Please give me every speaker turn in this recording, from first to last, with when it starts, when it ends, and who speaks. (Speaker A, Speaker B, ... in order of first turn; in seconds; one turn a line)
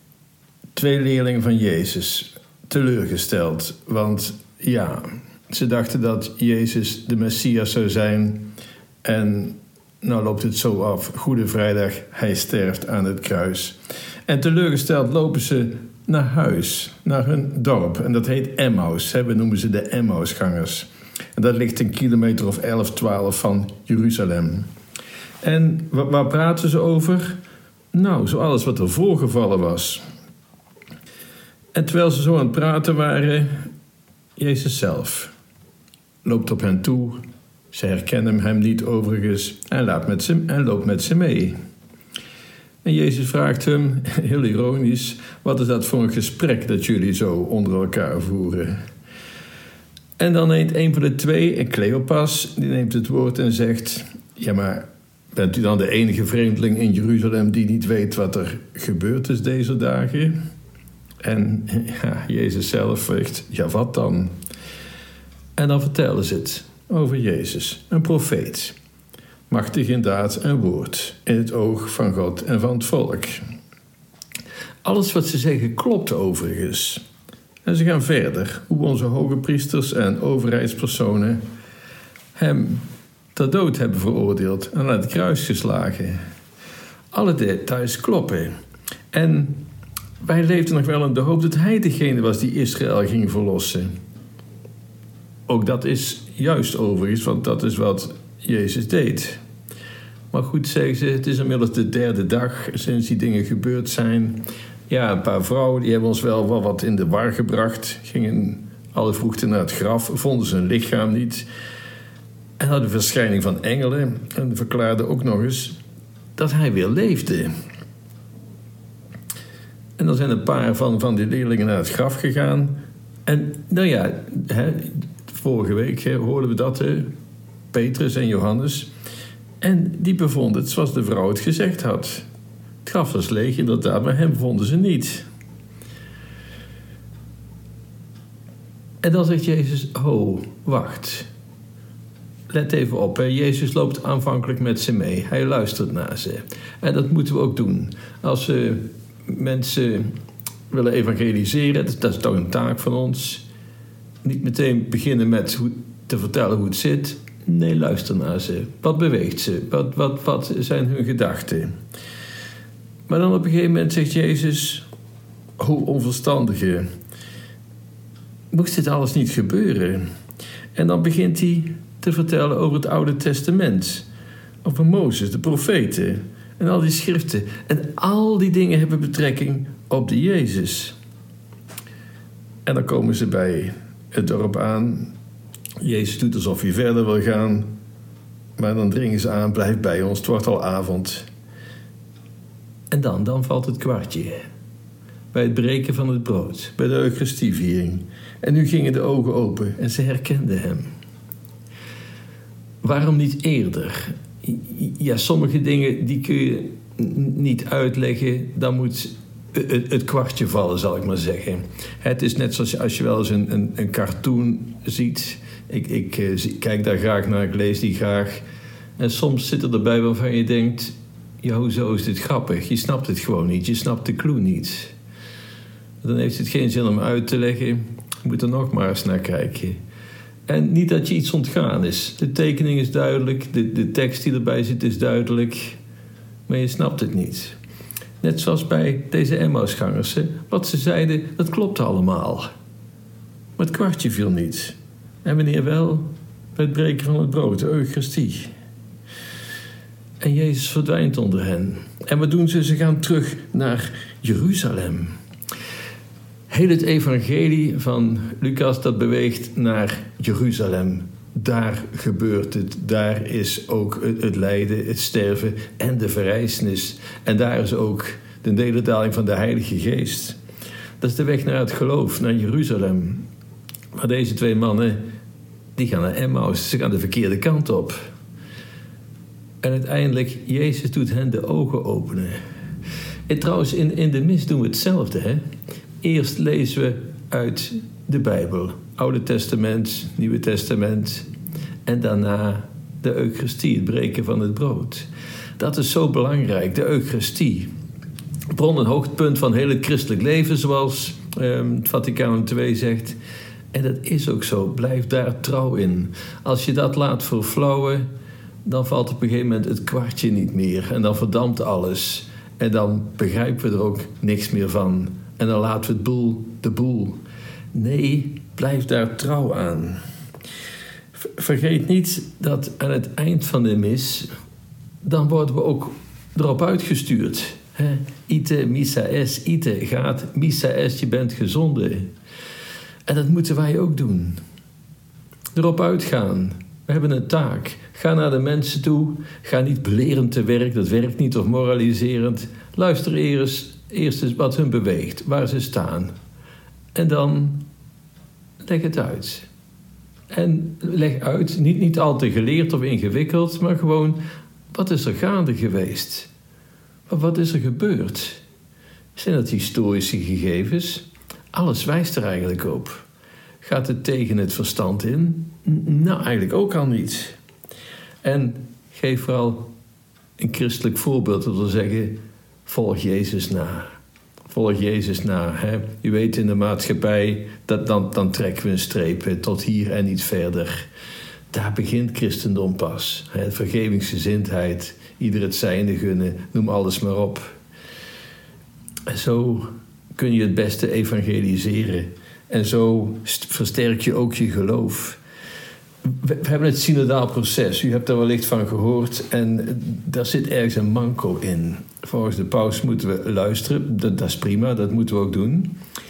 Speaker A: 0.8-8.5
Speaker A: 9.0-24.7
Speaker A: 25.4-27.4
Speaker A: 27.9-30.0
Speaker A: 31.7-33.7
Speaker A: 34.4-35.3
Speaker A: 36.2-37.2
Speaker A: 37.7-41.6
Speaker A: 42.8-48.8
Speaker A: 50.2-60.4
Speaker A: 61.2-64.3
Speaker A: 65.6-68.8
Speaker A: 69.5-73.4
Speaker A: 74.8-77.0
Speaker A: 77.6-81.4
Speaker A: 82.3-86.2
Speaker A: 87.1-88.5
Speaker A: 89.1-89.7
Speaker A: 90.2-93.9
Speaker A: 95.5-99.4
Speaker A: 100.3-111.5
Speaker A: 112.6-115.8
Speaker A: 116.4-117.5
Speaker A: 120.0-127.1
Speaker A: 127.7-128.9
Speaker A: 129.6-132.3
Speaker A: 132.8-135.3
Speaker A: 139.0-141.3
Speaker A: 142.5-150.1
Speaker A: 150.7-153.4
Speaker A: 154.2-161.7
Speaker A: 163.1-164.9
Speaker A: 165.6-166.9
Speaker A: 168.5-170.1
Speaker A: 170.8-174.1
Speaker A: 174.6-181.0
Speaker A: 182.7-185.1
Speaker A: 185.8-187.7
Speaker A: 188.6-191.3
Speaker A: 192.9-194.4
Speaker A: 195.3-200.9
Speaker A: 202.8-218.4
Speaker A: 219.0-224.9
Speaker A: 226.0-229.8
Speaker A: 230.5-235.8
Speaker A: 236.5-237.6
Speaker A: 238.2-242.5
Speaker A: 243.6-248.5
Speaker A: 250.2-255.2
Speaker A: 256.5-270.4
Speaker A: 271.0-273.3
Speaker A: 273.9-275.0
Speaker A: 275.8-278.0
Speaker A: 279.6-282.4
Speaker A: 283.3-285.4
Speaker A: 286.0-291.3
Speaker A: 291.9-295.1
Speaker A: 295.6-297.7
Speaker A: 298.5-303.2
Speaker A: 303.7-308.1
Speaker A: 308.6-317.2
Speaker A: 317.7-320.0
Speaker A: 321.1-324.3
Speaker A: 325.0-332.1
Speaker A: 333.1-334.4
Speaker A: 335.5-346.1
Speaker A: 346.9-347.7
Speaker A: 348.6-349.5
Speaker A: 350.3-356.3
Speaker A: 357.1-358.4
Speaker A: 359.1-363.1
Speaker A: 363.6-367.4
Speaker A: 368.2-369.7
Speaker A: 370.4-374.0
Speaker A: 374.5-380.9
Speaker A: 381.5-387.6
Speaker A: 389.1-395.2
Speaker A: 396.1-405.8